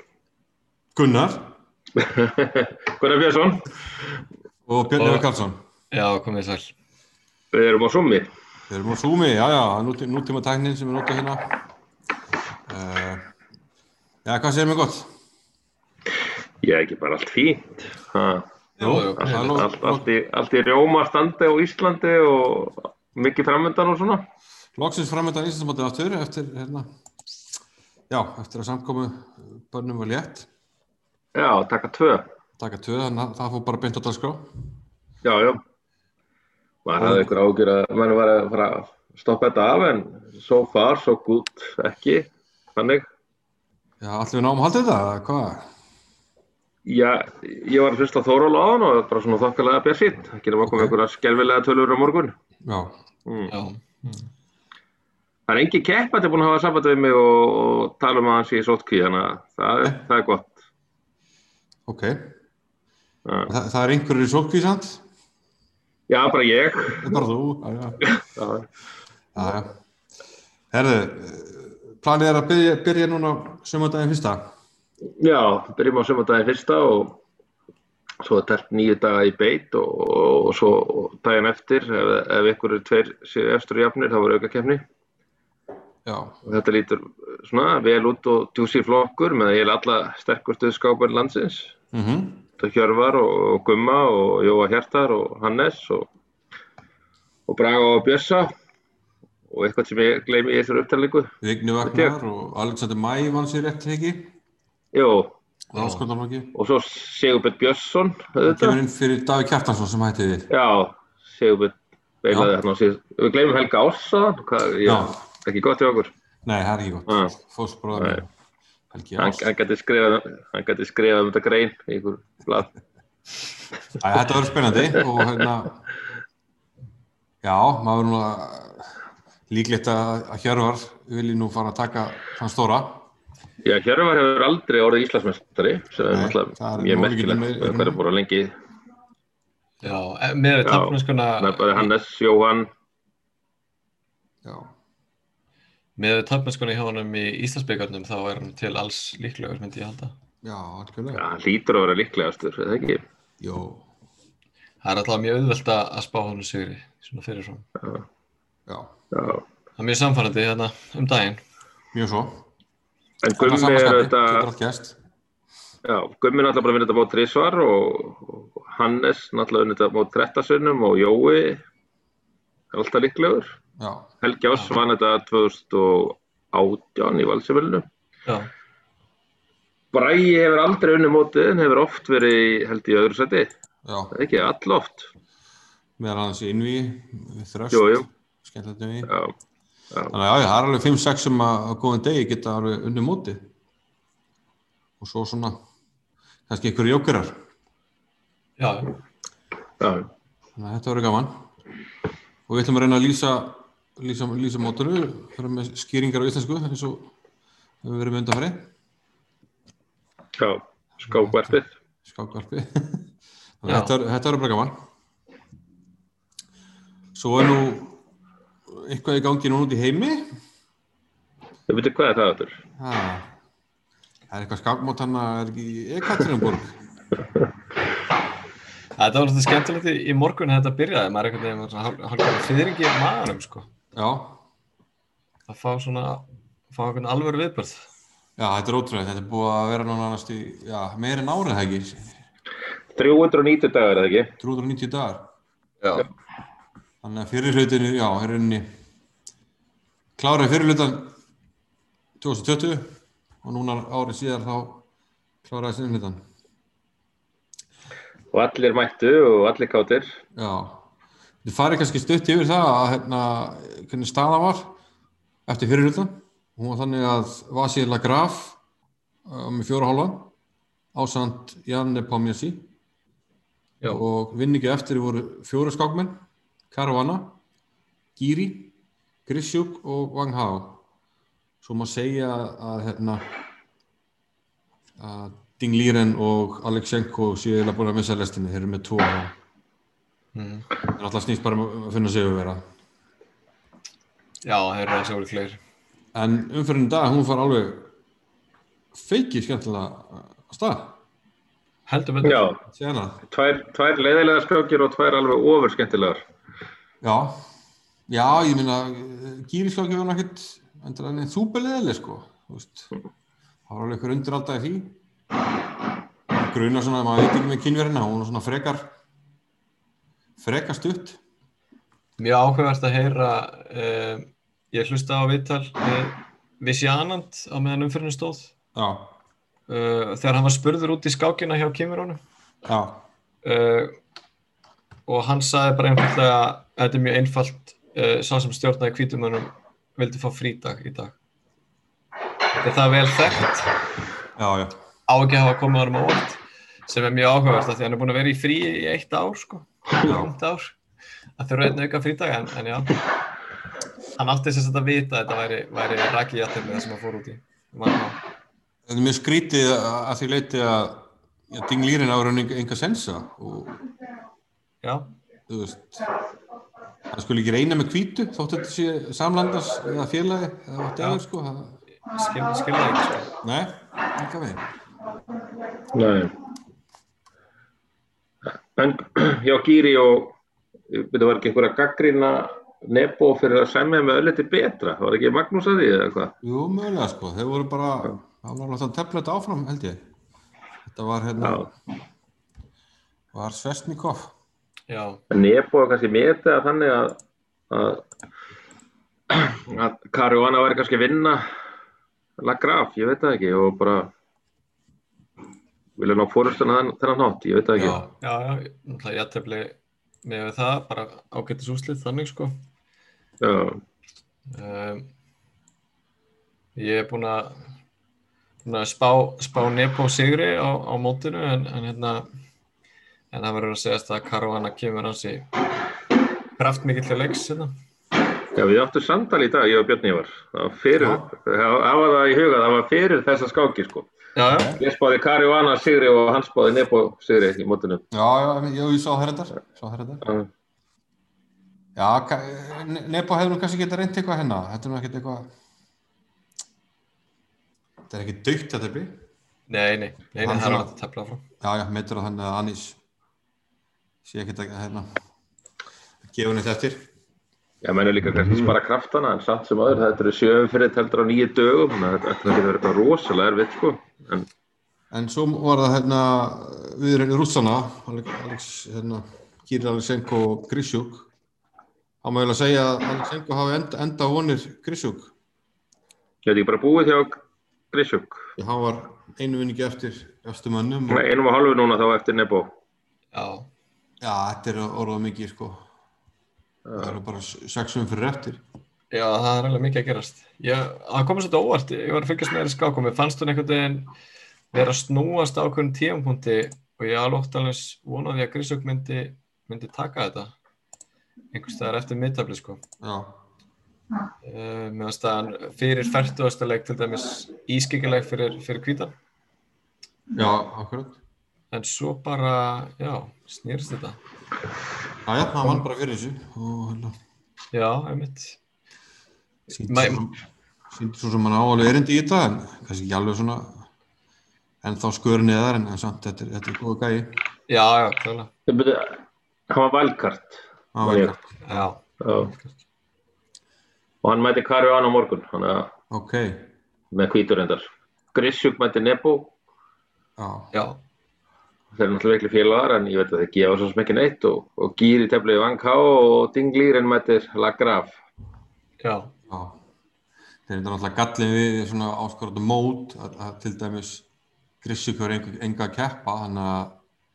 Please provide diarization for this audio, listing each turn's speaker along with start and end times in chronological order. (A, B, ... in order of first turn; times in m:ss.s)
0:00.9-0:01.5 A
0:02.0-0:04.0 B
0:04.6-0:05.6 A
0:04.9-0:05.3 C
0:05.9-0:06.7 C
0:07.5-0:08.2 B
0:08.7-0:11.4 A
0:12.7-0:13.2 A
0:14.2-0:15.1 A
0:16.6-0:18.4 B
0:18.8-0:20.1 A
0:18.8-0:19.7 C
0:19.2-0:24.2 B
0:24.8-0:26.8 A
0:28.1-0:30.5 A
0:31.3-0:32.2 B
0:32.6-0:34.4 A
0:35.2-0:35.6 B
0:36.8-0:43.0 B
0:37.0-0:37.3 A
0:44.0-0:45.6 A
0:46.8-0:52.3 B
0:50.6-0:51.0 A
0:52.6-0:52.9 A
0:53.2-0:53.5 B
0:53.4-0:54.3 C
0:55.5-1:00.6 B
1:01.9-1:02.3 A
1:03.2-1:03.5 B
1:03.5-1:05.0 A
1:06.1-1:07.2 B
1:07.0-1:08.1 A
1:08.2-1:08.7 B
1:09.3-1:09.7 A
1:10.7-1:14.4 A
1:15.2-1:17.2 B
1:18.2-1:24.8 B
1:26.0-1:26.3 A
1:26.4-1:31.7 B
1:31.9-1:32.5 A
1:32.6-1:36.1 B
1:37.5-1:38.5 B
1:39.5-1:42.2 B
1:41.4-1:44.3 A
1:44.9-1:45.3 B
1:45.7-1:46.5 A
1:45.7-1:46.0 C
1:46.5-1:48.8 B
1:48.4-1:50.5 A
1:50.5-1:56.1 B
1:52.3-1:52.5 A
1:54.8-1:55.2 A
1:56.4-1:58.3 A
1:57.1-1:57.3 B
1:57.9-1:58.2 B
1:58.9-1:59.5 A
1:59.2-2:02.7 B
2:04.0-2:05.8 A
2:07.4-2:09.0 A
2:09.5-2:13.1 A
2:13.6-2:18.5 B
2:16.1-2:18.0 A
2:19.8-2:21.9 C
2:20.6-2:22.7 B
2:24.4-2:24.7 A
2:26.0-2:30.1 C
2:30.4-2:31.2 A
2:31.1-2:33.0 B
2:33.4-2:33.8 A
2:34.8-2:37.6 C
2:37.8-2:38.0 B
2:39.1-2:39.4 B
2:39.8-2:41.4 C
2:41.9-2:42.4 A
2:43.2-2:44.5 B
2:43.4-2:45.0 A
2:45.8-2:51.6 B
2:52.7-2:53.5 B
2:53.8-2:54.1 A
2:54.2-2:57.8 B
2:59.9-3:03.5 B
3:03.8-3:04.2 A
3:04.1-3:05.1 B
3:06.0-3:09.1 A
3:07.7-3:08.1 B
3:09.0-3:09.3 B
3:10.1-3:13.5 A
3:15.0-3:15.6 A
3:16.5-3:17.3 A
3:18.6-3:19.0 C
3:19.8-3:20.1 B
3:20.6-3:21.4 A
3:22.5-3:27.1 A
3:27.8-3:28.7 A
3:30.4-3:31.7 B
3:31.0-3:33.1 A
3:33.6-3:34.7 A
3:33.6-3:33.9 C
3:37.1-3:38.0 A
3:38.7-3:40.2 A
3:41.7-3:42.6 B
3:42.8-3:43.3 A
3:44.3-3:46.8 A
3:49.0-3:53.6 C
3:53.9-3:54.4 A
3:55.5-3:57.9 C
3:58.4-4:02.1 A
4:02.9-4:04.3 B
4:04.4-4:05.2 A
4:05.8-4:06.1 C
4:07.0-4:08.6 A
4:10.2-4:11.1 A
4:12.2-4:12.8 A
4:13.4-4:14.8 A
4:15.4-4:16.2 A
4:18.3-4:20.1 B
4:20.3-4:20.8 A
4:21.4-4:24.7 A
4:25.5-4:28.6 A
4:29.2-4:30.3 A
4:30.9-4:32.7 A
4:33.8-4:37.4 A
4:38.2-4:38.7 A
4:39.2-4:40.8 A
4:41.6-4:43.2 A
4:45.0-4:49.3 A
4:50.3-4:50.7 C
4:50.9-4:52.6 A
4:54.4-4:55.6 C
4:56.1-4:57.9 A
4:58.9-5:01.0 A
5:01.9-5:02.5 C
5:02.2-5:02.6 B
5:02.6-5:03.2 A
5:03.3-5:06.2 B
5:07.0-5:07.3 A
5:08.1-5:12.9 A
5:13.7-5:15.0 A
5:16.3-5:19.0 A
5:20.4-5:21.2 A
5:22.2-5:28.5 C
5:28.7-5:29.2 A
5:29.7-5:32.2 C
5:32.6-5:33.0 A
5:33.4-5:33.9 C
5:35.1-5:41.2 C
5:42.6-5:43.8 C
5:44.4-5:44.7 A
5:45.1-5:50.8 C
5:50.0-5:50.3 A
5:51.4-5:53.0 C
5:54.2-5:58.2 C
5:58.8-6:03.8 A
6:05.5-6:06.0 A
6:07.1-6:11.8 A
6:12.0-6:13.3 C
6:13.4-6:14.6 A
6:15.9-6:16.3 B
6:18.4-6:20.3 B
6:20.9-6:26.3 B
6:26.4-6:30.0 A
6:30.8-6:31.6 A
6:31.4-6:31.7 B
6:33.3-6:34.3 A
6:34.9-6:35.2 C
6:35.3-6:37.2 B
6:37.7-6:38.0 B
6:39.3-6:41.4 B
6:42.4-6:44.1 B
6:46.0-6:48.0 B
6:47.8-6:52.5 C
6:53.4-6:53.8 B
6:54.5-6:55.0 C
6:56.8-6:57.5 C
6:58.6-7:02.2 C
7:03.3-7:05.5 C
7:06.6-7:07.7 C
7:08.5-7:14.1 B
7:11.0-7:11.3 A
7:14.4-7:14.7 C
7:14.5-7:14.8 A
7:14.7-7:18.0 B
7:18.1-7:20.2 A
7:22.0-7:25.5 A
7:28.1-7:29.1 A
7:29.7-7:31.4 C
7:30.4-7:31.0 A
7:31.6-7:33.0 A
7:34.2-7:35.1 A
7:36.2-7:37.1 A
7:37.8-7:44.5 B
7:45.1-7:51.3 A
7:52.2-7:55.3 A
7:56.4-7:57.4 B
7:57.9-7:58.4 B
7:58.6-8:01.3 A
8:01.1-8:02.7 B
8:03.3-8:03.7 C
8:04.2-8:05.8 A
8:06.8-8:07.2 B
8:07.0-8:08.6 A
8:09.1-8:14.1 C
8:14.7-8:20.5 C
8:21.5-8:22.8 C
8:23.0-8:23.4 A
8:24.4-8:29.1 C
8:30.3-8:31.2 A
8:31.7-8:34.2 C
8:35.2-8:37.1 A
8:37.7-8:38.6 C
8:39.7-8:40.4 A
8:39.9-8:40.2 C
8:40.9-8:43.9 A
8:44.8-8:47.4 A
8:47.7-8:48.5 C
8:48.7-8:51.4 B
8:50.9-8:51.6 A
8:51.6-8:52.8 C
8:52.2-8:52.5 B
8:54.2-8:55.9 B
8:56.1-8:56.7 A
8:57.1-8:59.5 B
9:00.4-9:00.7 A
9:00.7-9:01.0 C
9:01.9-9:08.1 B
9:09.0-9:09.3 C
9:09.5-9:09.8 A
9:10.7-9:14.3 A
9:14.8-9:17.0 A